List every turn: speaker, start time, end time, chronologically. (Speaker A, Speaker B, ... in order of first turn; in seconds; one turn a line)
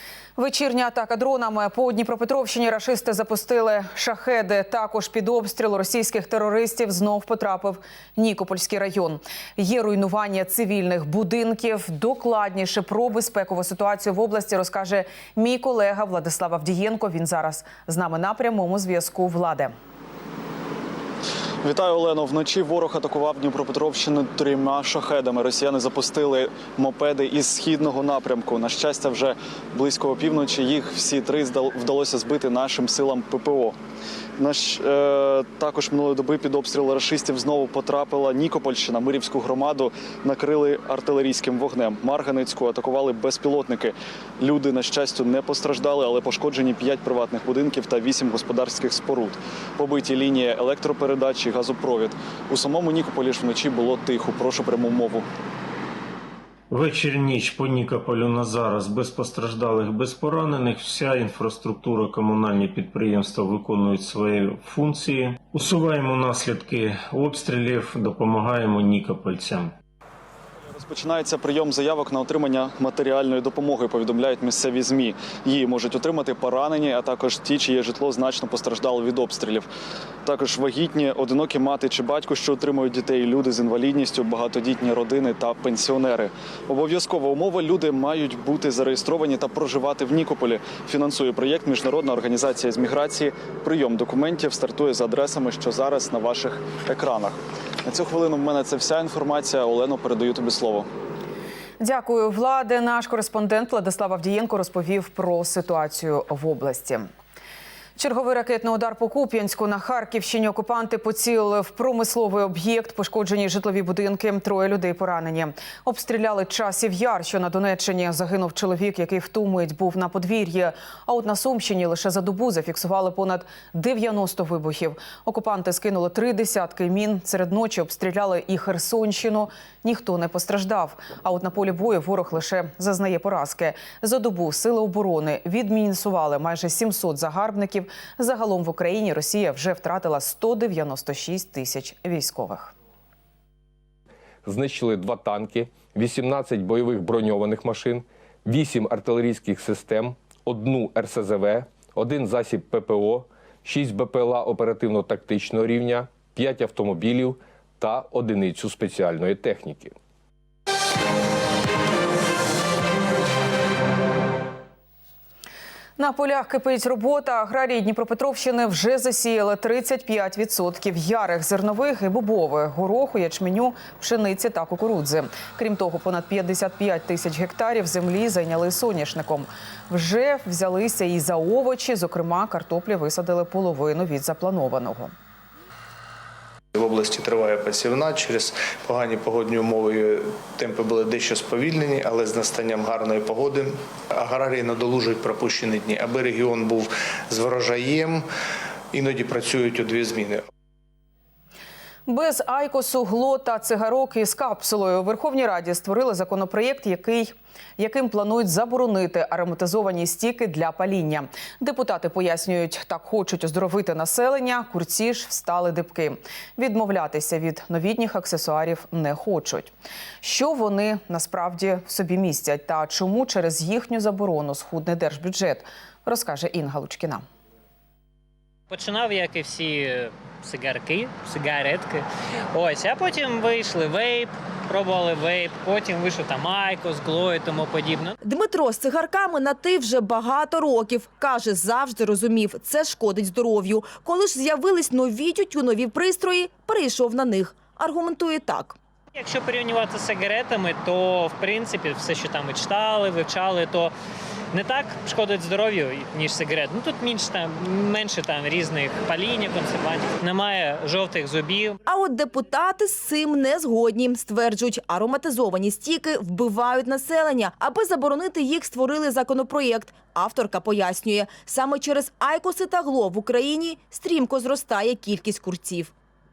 Speaker A: 0.4-19.7
Speaker B: 21.6-33.8
Speaker B: 34.4-55.3
Speaker C: 56.7-69.7
Speaker B: 70.7-79.7
Speaker B: 80.2-100.9
Speaker A: 101.8-107.0
Speaker A: 108.0-142.7
Speaker D: 144.4-159.9
Speaker A: 166.0-185.1
Speaker E: 186.8-198.2
Speaker E: 198.9-200.4
Speaker A: 202.1-227.2
Speaker F: 228.7-238.2
Speaker G: 238.2-248.8
Speaker F: 249.2-253.9
Speaker F: 254.5-261.8
Speaker G: 261.9-275.9